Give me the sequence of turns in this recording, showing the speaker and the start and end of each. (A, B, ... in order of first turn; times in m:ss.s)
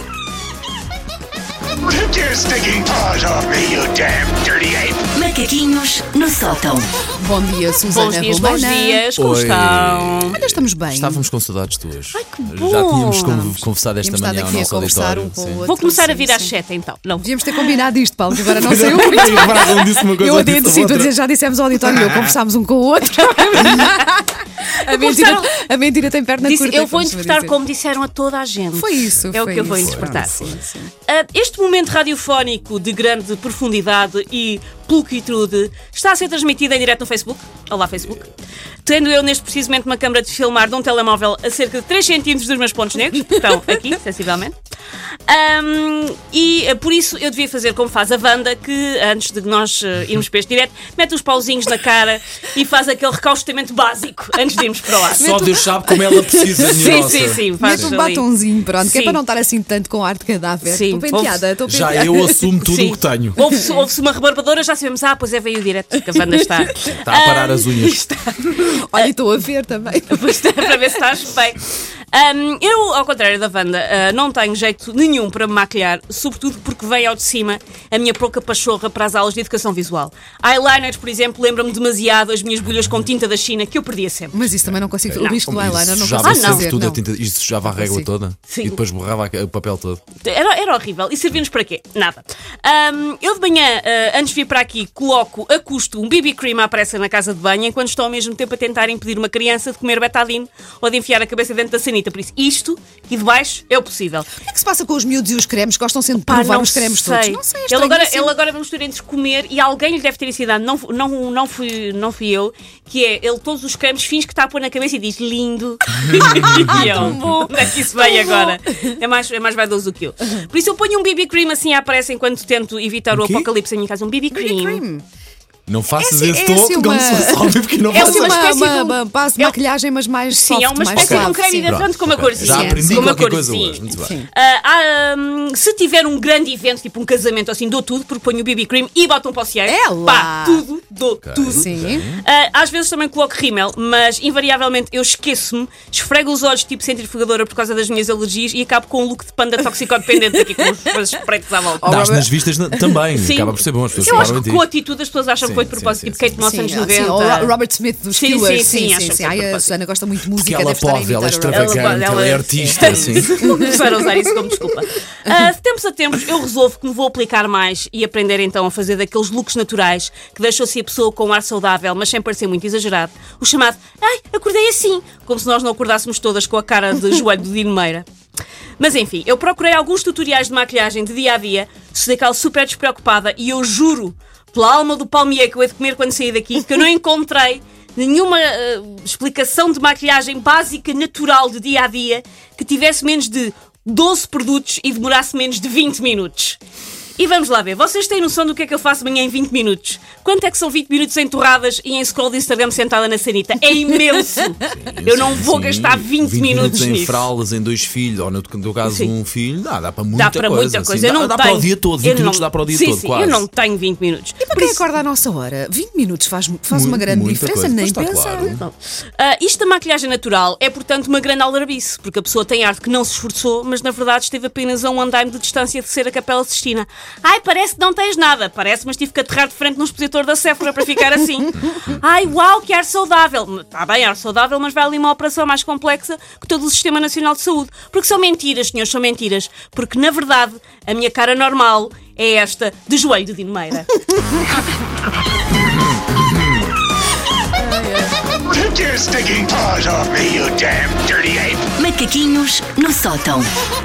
0:01.8-0:05.0 A
0:05.1-0:06.9 B
0:07.2-0:09.0 C
0:07.9-0:10.4 D
0:09.2-0:15.7 E
0:10.3-0:11.2 C
0:12.1-0:13.4 D
0:13.2-0:16.5 C
0:15.6-0:17.7 D
0:17.2-0:27.6 C
0:18.4-0:21.1 E
0:21.9-0:22.3 E
0:23.7-0:24.0 D
0:24.8-0:25.5 D
0:26.4-0:38.3 D
0:28.7-0:30.9 C
0:29.8-0:30.5 E
0:38.8-0:44.5 D
0:45.3-0:55.4 D
0:55.2-0:57.9 E
0:55.2-1:02.5 C
0:56.6-0:58.2 D
0:58.8-0:59.2 D
1:00.6-1:01.5 D
1:01.6-1:03.4 E
1:02.6-1:09.1 D
1:06.9-1:08.0 E
1:08.5-1:11.0 C
1:10.1-1:24.4 D
1:24.3-1:27.0 C
1:24.6-1:30.0 E
1:25.1-1:25.4 D
1:26.2-1:26.7 D
1:27.7-1:28.1 C
1:28.5-1:28.8 D
1:30.2-1:44.3 D
1:44.3-1:48.3 C
1:46.3-2:04.8 D
1:56.1-1:58.9 C
1:56.2-1:57.3 E
2:03.1-2:03.5 E
2:04.3-2:05.0 C
2:05.7-2:08.5 E
2:06.0-2:11.8 C
2:07.9-2:09.6 D
2:10.3-2:32.0 D
2:10.9-2:14.2 E
2:12.4-2:13.2 C
2:13.9-2:14.3 C
2:19.6-2:20.6 C
2:21.2-2:22.2 E
2:21.5-2:22.0 C
2:31.8-2:33.0 C
2:31.8-2:34.7 E
2:33.2-2:37.5 D
2:34.0-2:34.4 C
2:35.4-2:36.5 E
2:36.4-2:44.2 C
2:38.1-2:39.7 D
2:40.3-2:43.6 E
2:41.5-2:58.0 D
2:58.8-3:16.6 D
3:17.2-3:27.2 D
3:24.6-3:33.4 E
3:30.1-3:34.8 D
3:34.4-3:38.6 C
3:36.7-3:38.6 E
3:38.5-4:04.0 D
4:07.6-4:08.1 C
4:08.5-4:11.7 A
4:11.8-4:13.5 B